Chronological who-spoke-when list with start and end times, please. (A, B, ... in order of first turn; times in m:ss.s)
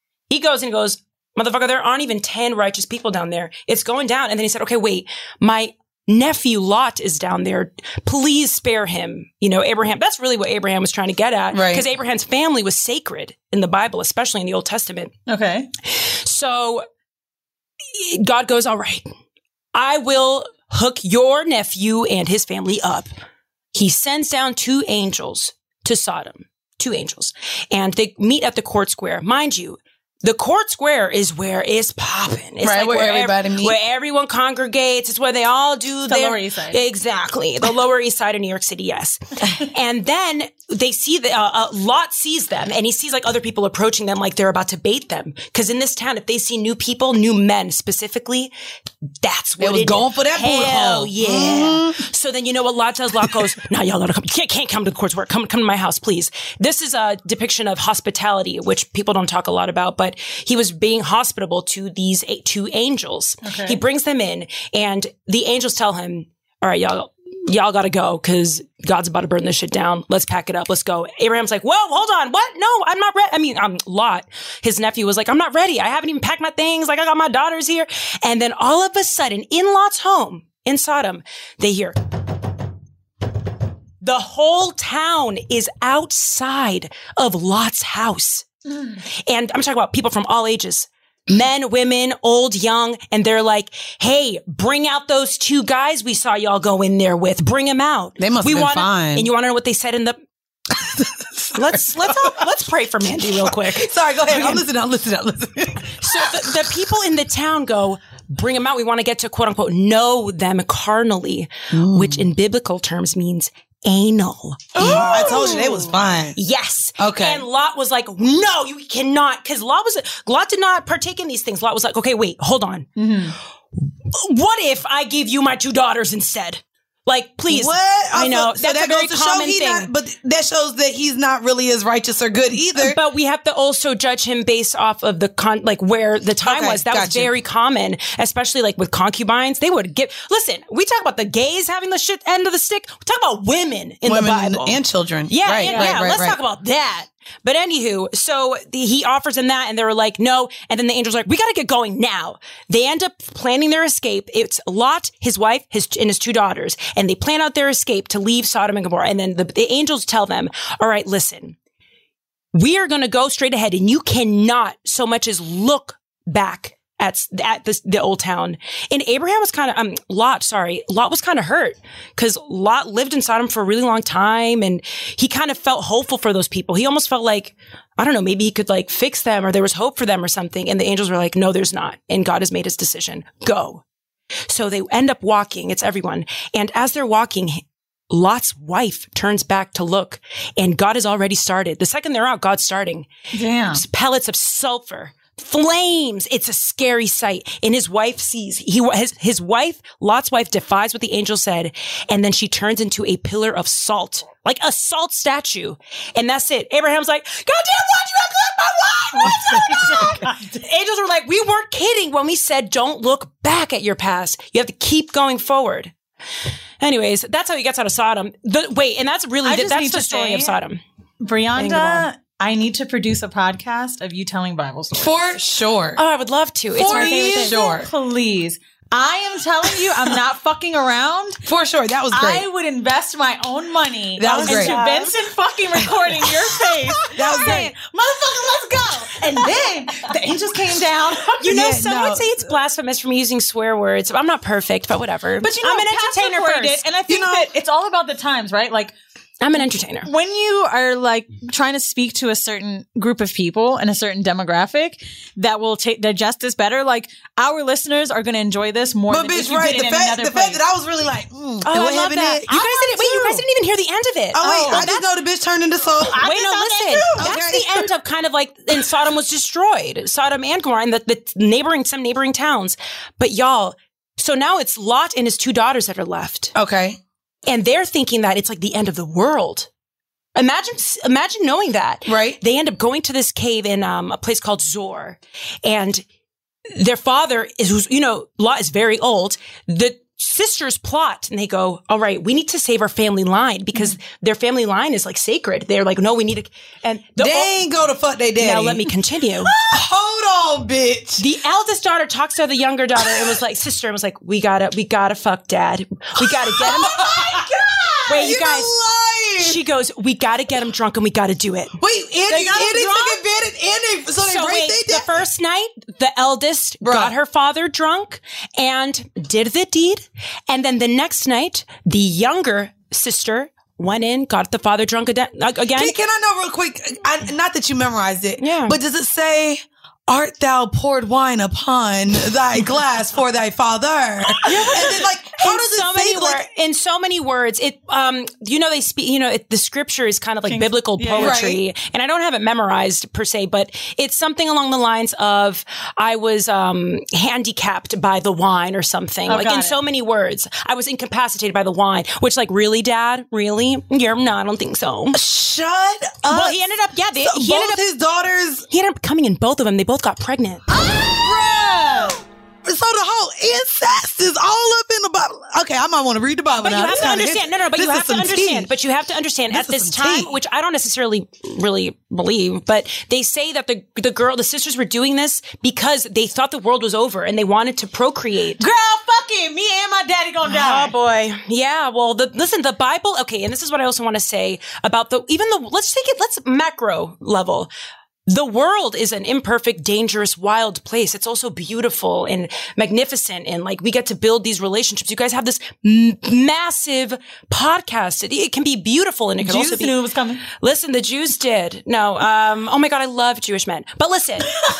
0:00.3-0:15.1 A
0:11.5-0:11.8 B
0:15.3-0:15.7 C
0:15.9-0:16.8 A
0:17.9-0:19.1 A
0:19.7-0:23.1 A
0:23.7-0:48.5 A
0:32.6-0:33.8 B
0:36.1-0:36.8 C
0:49.2-1:22.0 A
0:49.6-0:52.0 B
1:03.4-1:03.8 C
1:24.0-1:28.5 A
1:29.2-1:40.2 A
1:38.2-1:39.3 B
1:40.7-1:42.4 B
1:41.5-1:44.6 A
1:43.4-1:46.5 B
1:46.0-2:02.9 A
1:51.7-1:52.2 B
1:54.8-1:56.4 B
1:57.0-1:57.4 B
2:03.0-2:03.3 C
2:04.1-2:09.9 A
2:07.5-2:13.0 B
2:12.8-2:41.6 A
2:16.4-2:17.3 B
2:24.0-2:26.4 B
2:25.6-2:26.0 C
2:42.5-3:03.8 A
3:04.5-3:13.1 A
3:13.3-3:13.8 C
3:13.7-3:35.9 A
3:29.7-3:30.6 C
3:36.8-3:40.8 A
3:39.4-3:40.5 C
3:41.2-3:45.3 C
3:41.6-3:42.1 A
3:44.9-3:46.0 B
3:46.0-3:47.6 A
3:46.7-3:47.9 B
3:46.8-3:51.4 C
3:51.4-3:52.5 B
3:52.1-4:01.4 C
3:54.2-3:54.8 B
3:54.2-3:55.2 A
3:57.1-3:57.7 B
4:01.4-4:06.8 A
4:01.4-4:02.5 B
4:05.4-4:08.9 C
4:07.1-4:07.5 B
4:09.4-4:10.1 A
4:10.0-4:20.6 C
4:19.1-4:23.4 B
4:21.6-4:25.1 A
4:24.3-4:26.2 B
4:24.4-4:24.9 C
4:26.0-4:27.4 C
4:26.2-4:36.5 A
4:27.2-4:27.9 B
4:36.5-4:37.0 B
4:37.5-4:39.7 A
4:40.3-4:46.0 A
4:42.0-4:42.4 B
4:46.7-4:57.6 A
4:57.2-4:58.9 B
4:58.4-4:59.5 A
4:59.7-5:01.2 B
5:01.2-5:07.5 A
5:03.0-5:03.4 B
5:06.2-5:09.6 B
5:08.1-5:08.7 A
5:09.4-5:11.7 A
5:11.8-5:15.2 B
5:12.3-5:13.2 A
5:14.2-5:26.0 A
5:16.8-5:17.1 B
5:25.7-5:36.5 B
5:28.4-5:28.8 A
5:34.4-5:55.2 A
5:34.5-5:35.1 C
5:40.4-5:41.4 C
5:41.2-5:41.6 B
5:49.3-5:49.8 C
5:55.1-5:58.6 B
5:56.2-5:57.8 A
5:58.7-6:00.6 A
6:00.7-6:08.7 B
6:06.6-6:18.6 A
6:09.5-6:10.3 B
6:18.6-6:20.9 C
6:20.4-6:27.7 A
6:28.3-6:40.0 A
6:39.4-6:40.4 C
6:40.5-6:44.5 A